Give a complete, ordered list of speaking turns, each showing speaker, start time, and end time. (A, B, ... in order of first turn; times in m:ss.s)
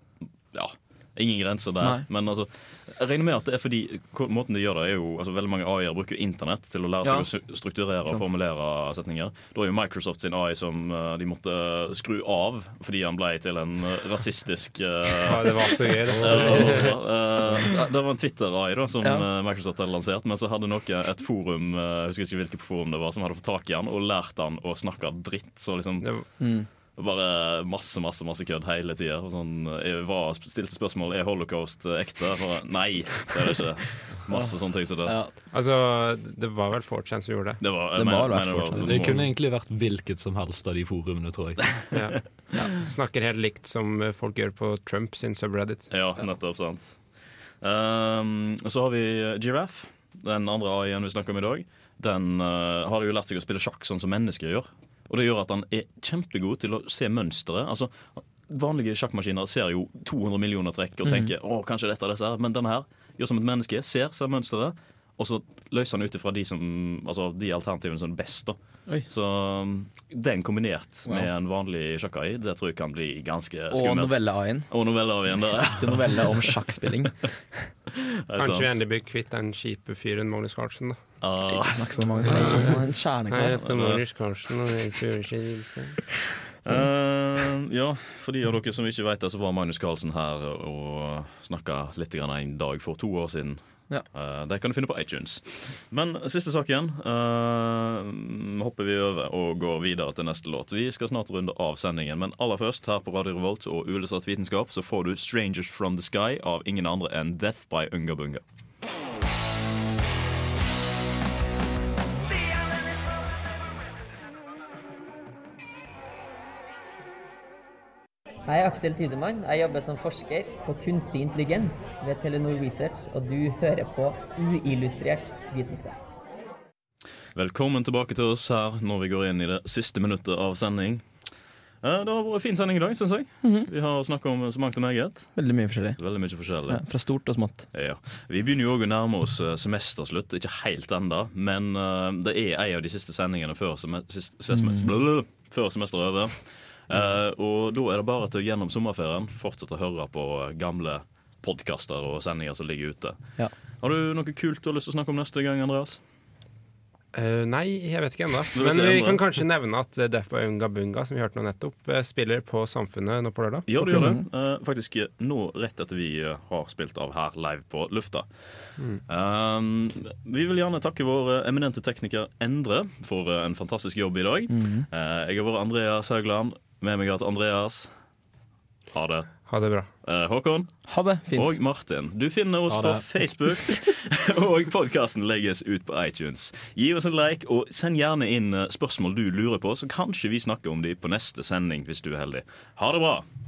0:00.5-0:35.2 A
0:15.2-0:17.0 B
0:16.1-0:17.6 C
0:26.4-0:26.7 D
0:34.3-0:35.3 D
0:35.5-0:37.6 B
0:37.6-0:39.3 A
0:38.0-0:39.2 D
0:38.7-0:41.9 C
0:41.9-0:45.9 B
0:45.9-1:16.5 A
1:01.0-1:01.3 D
1:11.0-1:11.3 D
1:13.7-1:14.7 D
1:15.5-1:17.4 D
1:18.3-1:18.8 A
1:18.4-1:21.0 B
1:21.2-1:22.7 A
1:21.5-1:23.8 D
1:22.3-1:26.1 B
1:23.7-1:24.0 A
1:26.6-1:48.4 A
1:58.5-2:06.0 E
2:07.4-2:11.3 A
2:11.8-2:36.0 A
2:13.4-2:13.7 D
2:15.4-2:17.7 D
2:24.5-2:24.9 D
2:37.1-2:44.0 B
2:38.5-2:39.2 A
2:43.7-2:57.9 A
2:43.8-2:44.2 D
2:54.5-2:54.9 D
2:58.9-2:59.5 A
2:59.5-2:59.9 B
3:00.0-3:13.2 A
3:00.9-3:01.6 D
3:02.7-3:03.1 C